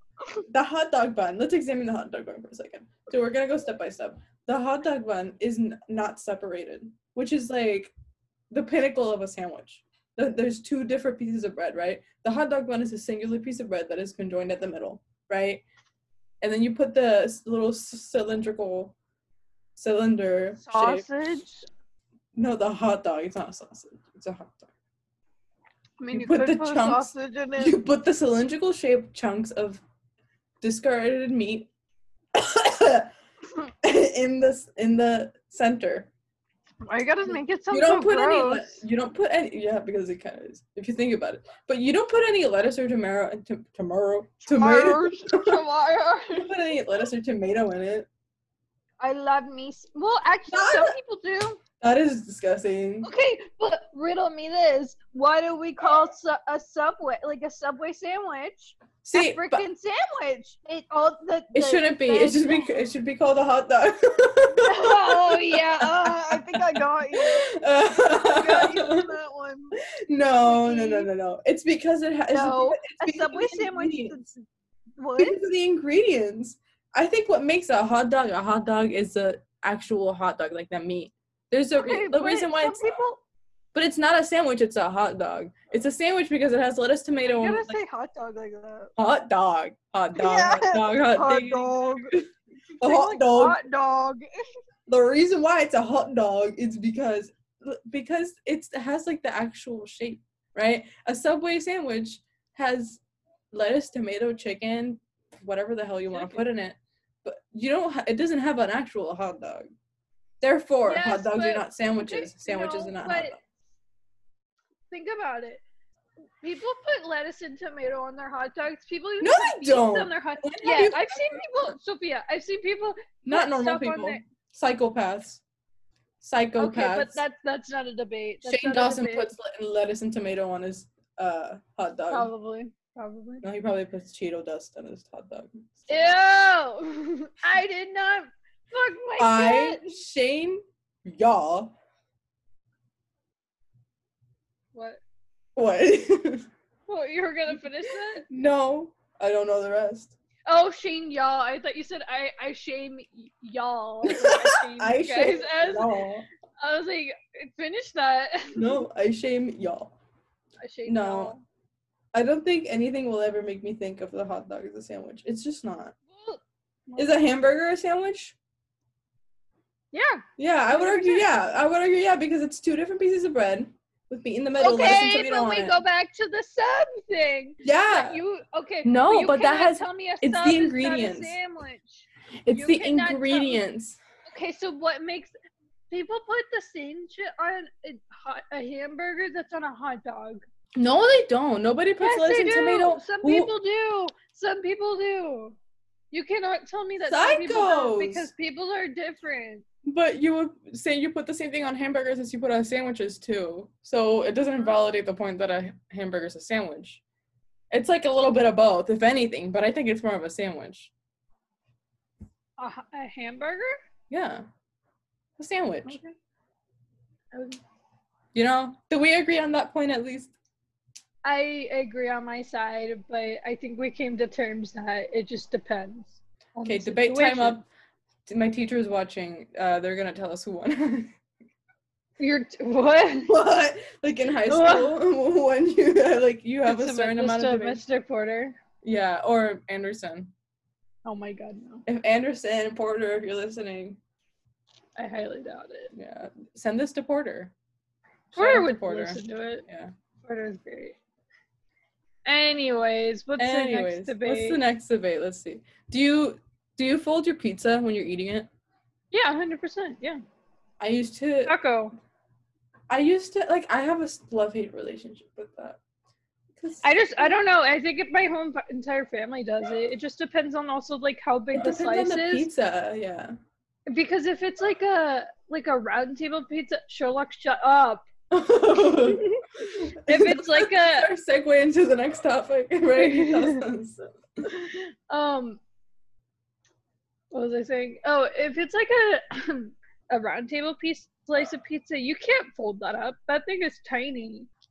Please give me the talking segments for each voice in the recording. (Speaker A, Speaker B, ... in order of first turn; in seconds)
Speaker A: 0.5-7.9, 8.5-15.6, 16.4-18.9, 19.8-21.4, 22.4-24.7, 26.1-29.8, 30.6-31.7, 32.4-33.1, 33.8-36.1, 37.3-45.6, 46.3-48.1, 50.5-51.0, 51.8-53.1, 59.0-59.6, 61.5-69.1, 70.1-74.2, 75.2-82.9, 83.7-87.8, 89.0-92.3, 92.8-93.6, 94.9-103.0, 103.5-109.7, 110.4-113.4, 119.2-121.8, 123.2-125.4, 126.2-127.2, 128.4-132.3, 133.4-135.9, 139.2-141.7, 145.6-146.5, 148.3-150.2, 154.1-156.3, 158.6-159.9, 160.9-161.3, 162.1-166.0, 167.0-168.4, 170.4-175.8, 177.6-178.2, 178.8-181.4, 182.5-184.0, 190.8-193.5, 197.0-198.3, 199.8-207.0, 207.7-210.9, 214.1-214.4, 215.4-216.0, 218.3-220.3, 226.7-227.7, 228.3-231.1, 233.3-237.8, 238.8-240.3, 241.9-244.0, 245.9-247.5, 248.3-249.9, 253.4-258.5, 260.8-261.6, 262.9-265.8, 266.6-267.4, 271.5-273.4, 278.3-284.2
Speaker B: 20.6-21.7, 26.0-27.8, 36.9-38.8, 44.5-46.5, 49.0-51.6, 53.0-62.8, 64.6-69.8, 70.4-71.1, 72.3-74.4, 75.0-75.4, 81.8-83.2, 87.3-88.9, 90.2-92.1, 92.8-94.5, 106.1-106.4, 110.9-113.3, 114.9-115.6, 116.4-124.2, 126.6-129.3, 132.1-133.4, 135.9-139.8, 144.7-145.0, 146.9-148.3, 150.5-156.0, 156.6-158.8, 160.6-161.4, 166.1-167.1, 169.9-171.3, 174.6-183.6, 184.3-185.3, 185.9-190.4, 192.0-195.6, 196.1-199.7, 212.6-213.8, 215.8-216.2, 217.3-217.6, 221.2-227.6, 232.2-233.3, 234.5-235.0, 236.7-238.6, 241.1-241.8, 245.0-245.9, 248.3-249.7, 250.2-251.0, 252.2-254.6, 259.1-260.2, 261.5-261.9, 266.8-272.5, 273.9-278.1, 279.0-281.1, 282.9-283.6, 284.4-285.6, 287.3-294.5